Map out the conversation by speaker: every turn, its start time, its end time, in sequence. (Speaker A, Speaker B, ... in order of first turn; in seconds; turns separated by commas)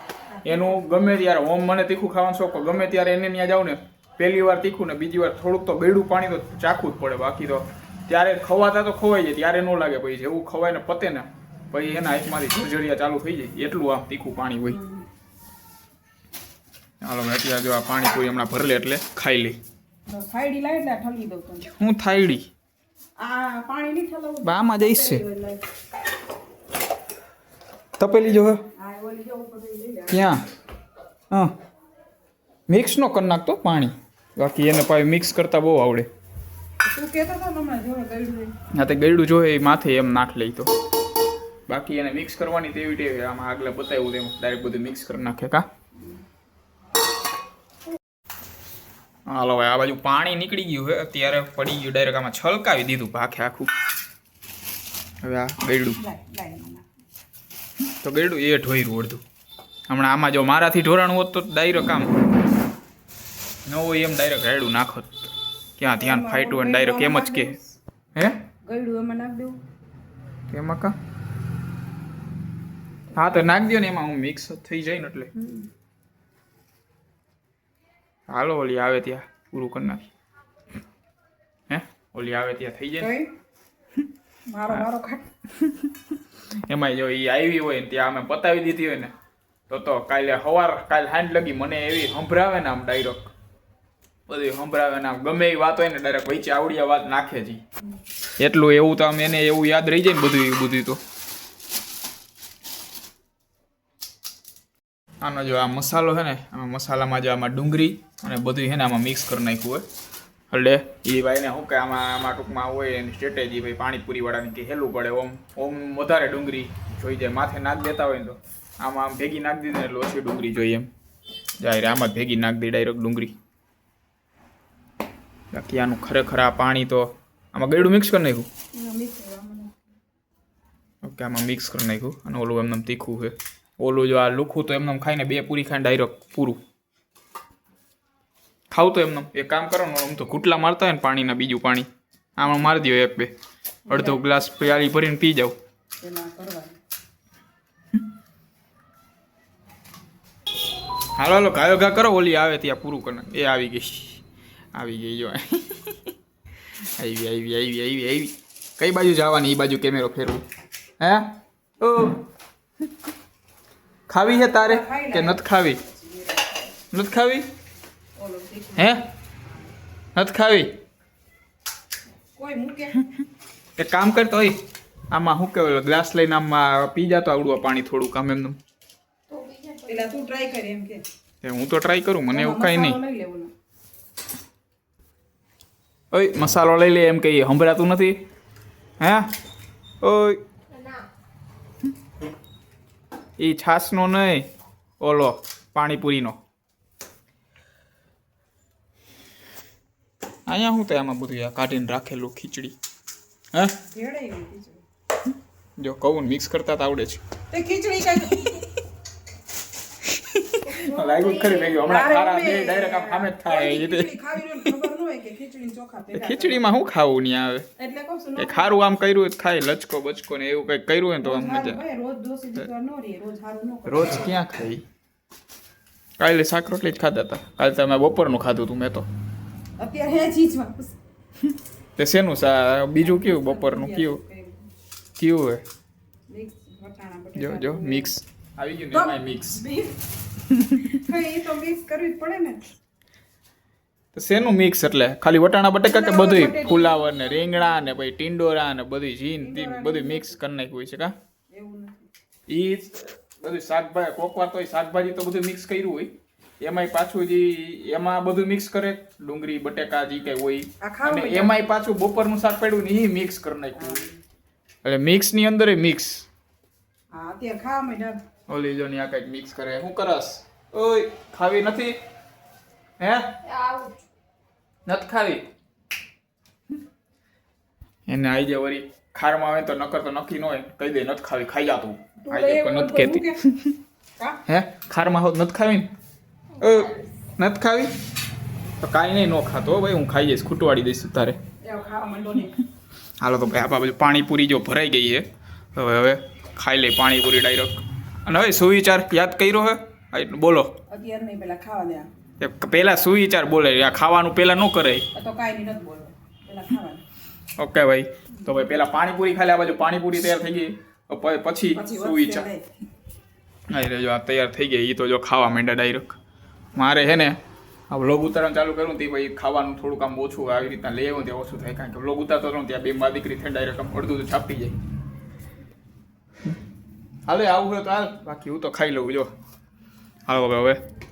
Speaker A: 0.3-0.8, Speaker B: 0.4-14.8, Speaker A: 14.7-15.0, Speaker B: 17.0-19.6, Speaker A: 20.1-21.7, Speaker B: 21.6-22.5, Speaker A: 23.2-25.6, Speaker B: 24.4-25.2, Speaker B: 28.0-28.6, Speaker A: 28.7-30.3, Speaker B: 30.1-30.4, Speaker B: 32.7-36.1, Speaker A: 36.8-38.5, Speaker B: 38.7-40.7, Speaker B: 41.7-45.6, Speaker B: 49.3-53.7, Speaker B: 55.2-56.0, Speaker A: 56.0-56.8, Speaker B: 58.0-59.2, Speaker B: 59.9-62.1, Speaker B: 63.6-67.5, Speaker A: 66.0-67.8, Speaker B: 68.1-68.4, Speaker A: 68.6-69.6, Speaker B: 70.5-70.9, Speaker B: 73.1-75.3, Speaker A: 75.3-75.7, Speaker B: 78.3-80.1, Speaker B: 81.7-83.1, Speaker A: 83.0-83.3, Speaker A: 84.5-85.2, Speaker B: 85.6-85.9, Speaker B: 86.7-89.1, Speaker B: 89.7-93.3, Speaker B: 94.3-97.6, Speaker B: 98.4-101.0, Speaker B: 105.2-109.8, Speaker B: 110.5-120.9, Speaker B: 121.6-123.3, Speaker B: 125.5-128.5, Speaker A: 128.7-129.8, Speaker B: 131.0-136.6, Speaker B: 138.7-143.3, Speaker A: 143.9-144.6, Speaker B: 143.9-145.5, Speaker A: 146.0-146.8, Speaker B: 151.2-154.2, Speaker B: 154.7-156.1, Speaker B: 157.0-160.4, Speaker B: 161.0-162.2, Speaker B: 164.1-165.8, Speaker A: 164.2-166.8, Speaker B: 166.9-167.4, Speaker A: 168.2-169.0, Speaker B: 168.8-169.1, Speaker B: 170.1-170.7, Speaker A: 172.4-173.0, Speaker B: 173.8-178.6, Speaker C: 179.3-180.2, Speaker A: 179.9-181.0, Speaker B: 181.4-183.0, Speaker A: 182.3-183.5, Speaker B: 186.1-188.2, Speaker B: 189.0-189.3, Speaker B: 190.0-190.4, Speaker C: 190.7-191.0, Speaker B: 193.4-194.5, Speaker B: 195.0-196.4, Speaker B: 200.5-202.7, Speaker B: 203.5-203.8, Speaker A: 203.9-204.8, Speaker B: 205.8-207.2, Speaker A: 207.5-208.6, Speaker B: 210.1-214.8, Speaker C: 210.7-211.8, Speaker A: 210.9-216.7, Speaker B: 216.1-217.7, Speaker A: 217.8-218.8, Speaker B: 218.4-221.8, Speaker A: 221.2-224.3, Speaker B: 223.8-224.8, Speaker B: 226.2-229.1, Speaker A: 229.8-230.9, Speaker B: 232.0-234.2, Speaker A: 233.0-234.7, Speaker B: 235.2-235.6, Speaker A: 236.3-238.1, Speaker B: 237.3-239.6, Speaker A: 238.9-240.0, Speaker B: 240.6-240.9, Speaker A: 240.9-242.6, Speaker B: 244.1-251.1, Speaker A: 245.8-247.6, Speaker A: 249.4-250.4, Speaker A: 251.5-252.1, Speaker B: 252.5-264.0, Speaker A: 260.8-261.6, Speaker A: 263.8-264.2, Speaker B: 264.8-266.3, Speaker A: 267.1-268.2, Speaker B: 268.5-272.0, Speaker B: 273.0-273.4, Speaker C: 273.4-273.9, Speaker B: 274.9-275.5, Speaker B: 278.1-283.8, Speaker A: 282.2-283.4, Speaker B: 284.4-285.9, Speaker C: 286.6-287.1, Speaker B: 286.6-287.9, Speaker B: 288.8-291.4, Speaker A: 291.6-292.6, Speaker B: 293.2-300.8, Speaker A: 300.9-302.1, Speaker B: 302.4-305.1, Speaker A: 305.1-307.0, Speaker B: 307.6-312.4, Speaker A: 311.7-312.6, Speaker B: 313.7-316.2, Speaker B: 316.8-317.4, Speaker B: 317.9-324.8, Speaker B: 327.3-329.3, Speaker B: 330.3-330.8